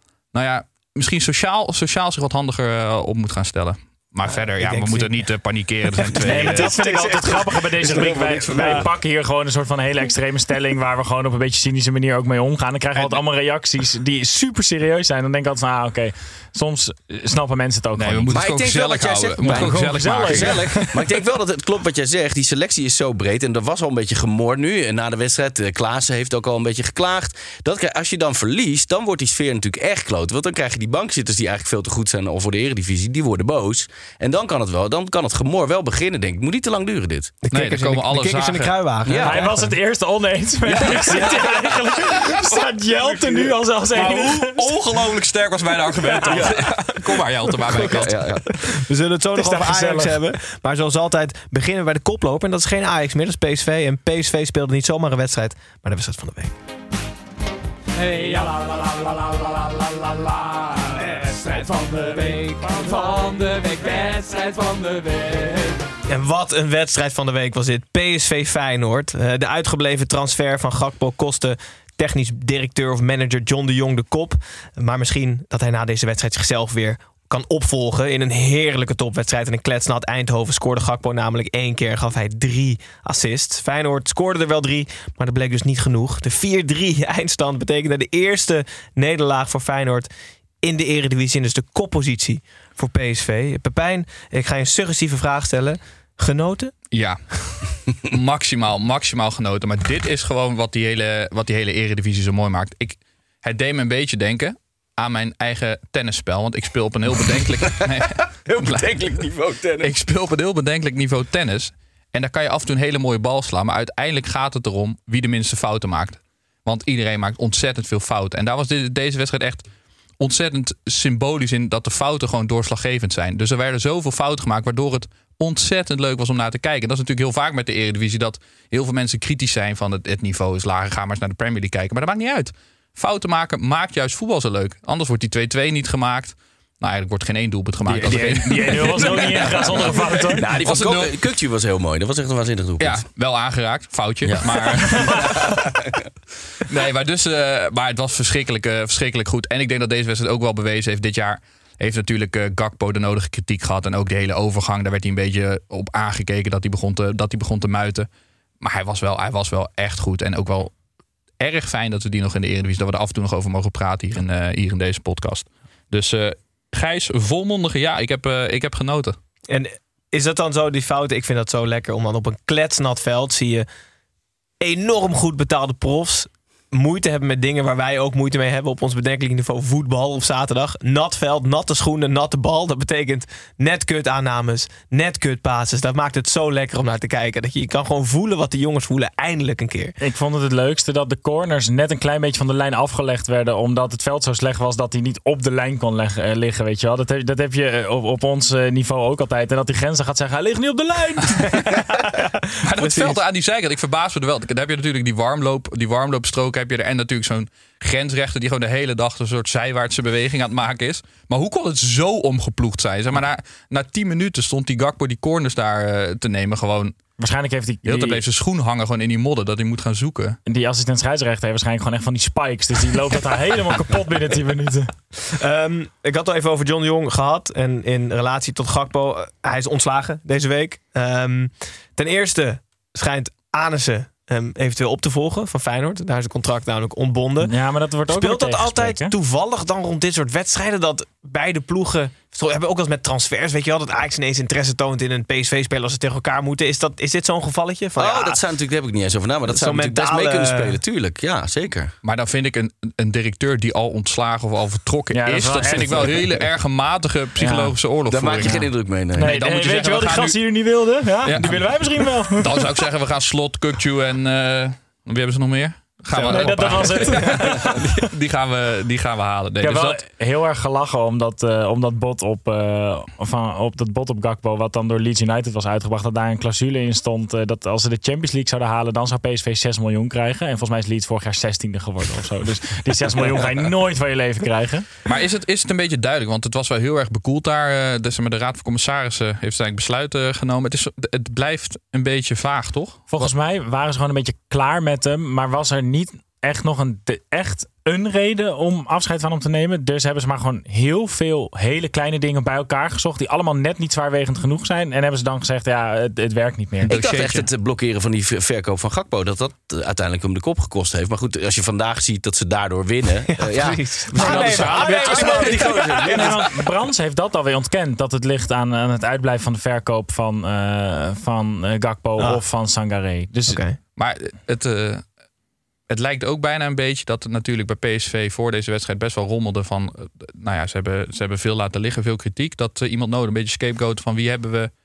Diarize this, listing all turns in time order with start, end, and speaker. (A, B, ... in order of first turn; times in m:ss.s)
0:00.3-0:06.7 A
0:04.2-0:05.3 B
0:06.0-0:08.9 B
0:06.2-0:18.3 C
0:07.9-0:08.8 D
0:18.0-0:21.0 A
0:18.3-0:37.4 D
0:19.5-0:20.9 C
0:37.4-0:39.7 B
0:37.5-0:38.7 A
0:39.1-0:39.4 D
0:39.2-0:44.6 C
0:40.8-0:41.2 A
0:43.9-0:48.2 A
0:46.2-0:46.6 D
0:46.3-0:46.8 B
0:47.6-0:48.5 D
0:48.6-0:56.5 B
0:49.4-0:50.2 C
0:58.0-1:05.8 E
1:06.1-1:30.1 B
1:30.6-1:36.7 B
1:36.9-1:49.0 A
1:48.5-1:49.9 D
1:49.8-1:59.7 A
2:00.2-2:19.9 A
2:17.9-2:20.0 B
2:18.1-2:20.5 C
2:20.4-2:23.0 D
2:20.5-2:21.1 A
2:22.8-2:25.6 A
2:24.2-2:25.9 D
2:26.6-2:38.1 A
2:38.6-2:40.7 A
2:41.4-2:49.2 A
2:49.5-2:53.7 B
2:54.6-3:10.0 B
3:10.0-3:21.6 C
3:22.2-3:23.2 B
3:22.6-3:37.0 A
3:37.2-3:38.2 C
3:37.8-3:40.4 A
3:40.5-3:44.9 C
3:45.3-3:57.5 B
3:57.4-3:59.1 C
3:58.1-4:08.4 B
4:08.0-4:11.9 D
4:09.5-4:10.8 B
4:12.0-4:20.4 A
4:15.1-4:16.4 C
4:17.4-4:17.7 C
4:18.1-4:19.4 D
4:19.2-4:22.6 C
4:21.2-4:30.0 A
4:26.2-4:26.5 B
4:26.2-4:27.9 C
4:29.6-4:44.9 C
4:45.1-4:53.3 A
4:53.1-5:06.9 C
5:06.8-5:07.5 A
5:06.8-5:16.4 D
5:13.3-5:16.4 B
5:14.3-5:15.6 A
5:14.3-5:23.6 C
5:22.2-5:22.4 B
5:23.5-5:23.8 B
5:24.0-5:25.1 A
5:25.9-5:34.7 A